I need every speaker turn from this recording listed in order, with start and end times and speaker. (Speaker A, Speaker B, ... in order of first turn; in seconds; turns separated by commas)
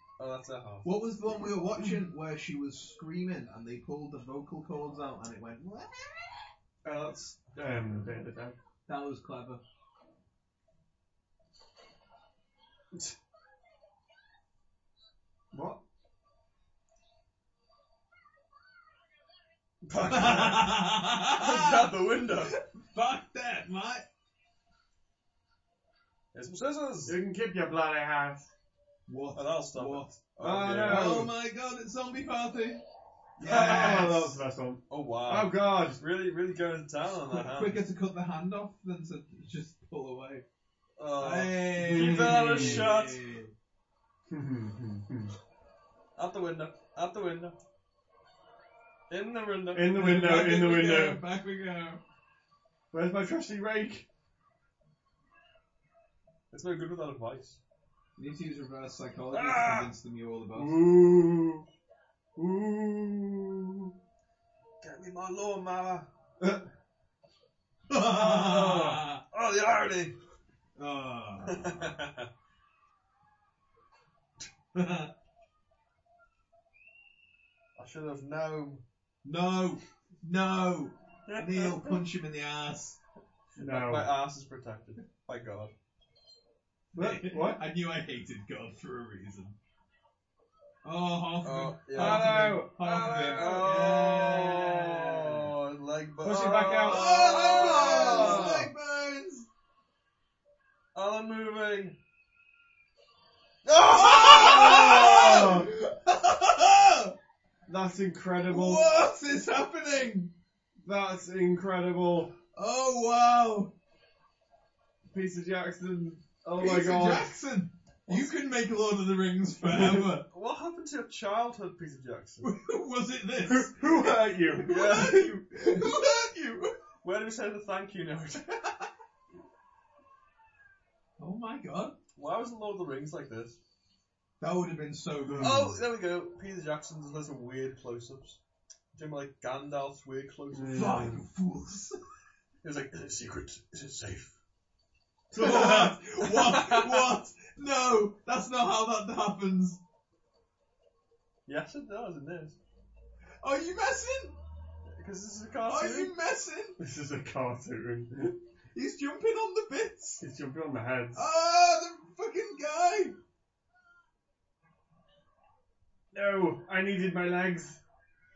Speaker A: 0.2-0.9, Speaker B: 0.8-6.4, Speaker C: 6.8-8.6, Speaker B: 8.9-9.6, Speaker C: 15.5-15.8, Speaker A: 19.9-22.6, Speaker B: 20.0-24.1, Speaker A: 26.3-27.2, Speaker C: 27.1-28.5, Speaker B: 29.1-32.8, Speaker A: 29.4-31.3, Speaker C: 30.4-31.3, Speaker B: 33.4-34.4, Speaker C: 33.4-36.0, Speaker A: 33.5-34.2, Speaker A: 34.9-37.8, Speaker B: 37.2-40.5, Speaker A: 41.0-43.3, Speaker B: 41.2-43.5, Speaker C: 41.9-42.9, Speaker C: 44.3-45.4, Speaker A: 46.2-47.6, Speaker A: 49.1-50.6, Speaker C: 49.7-51.2, Speaker B: 49.9-52.0, Speaker C: 52.9-54.1, Speaker A: 56.5-57.6, Speaker B: 58.2-60.8, Speaker A: 59.3-59.9, Speaker C: 60.5-61.7, Speaker C: 62.4-63.9, Speaker A: 64.8-66.1, Speaker C: 66.4-66.7, Speaker B: 67.9-69.2, Speaker A: 68.1-70.2, Speaker B: 70.8-72.0, Speaker A: 71.5-72.3, Speaker B: 74.7-75.1, Speaker A: 77.8-78.8, Speaker B: 79.2-83.0, Speaker A: 81.3-82.0, Speaker C: 83.6-84.1, Speaker A: 83.6-85.7, Speaker C: 86.9-87.6, Speaker B: 86.9-89.6, Speaker B: 90.8-95.3, Speaker A: 91.4-98.7, Speaker C: 91.9-92.8, Speaker C: 96.2-98.7, Speaker B: 96.9-99.5, Speaker A: 100.9-102.0, Speaker A: 103.7-105.6, Speaker B: 103.9-107.2, Speaker C: 104.2-105.7, Speaker C: 107.7-108.9, Speaker B: 108.5-110.3, Speaker C: 110.8-112.3, Speaker B: 112.5-113.7, Speaker C: 115.1-117.4, Speaker B: 116.5-120.3, Speaker A: 120.3-122.5, Speaker B: 122.4-124.0, Speaker C: 123.4-124.8, Speaker B: 124.5-126.7, Speaker A: 124.7-125.4, Speaker A: 127.0-128.8, Speaker B: 131.2-132.0, Speaker A: 132.2-133.6, Speaker B: 134.4-135.8, Speaker C: 135.3-135.7, Speaker A: 135.4-138.4, Speaker A: 138.9-141.2, Speaker C: 140.5-141.2, Speaker B: 140.7-142.0, Speaker A: 142.6-144.4, Speaker C: 145.3-146.0, Speaker B: 145.3-149.8, Speaker A: 146.2-147.2, Speaker A: 151.5-152.6, Speaker B: 153.4-154.4, Speaker A: 154.9-156.1, Speaker B: 155.7-156.8, Speaker C: 156.8-158.4, Speaker B: 158.7-160.2, Speaker C: 160.2-161.2, Speaker B: 161.2-163.2, Speaker C: 166.1-167.8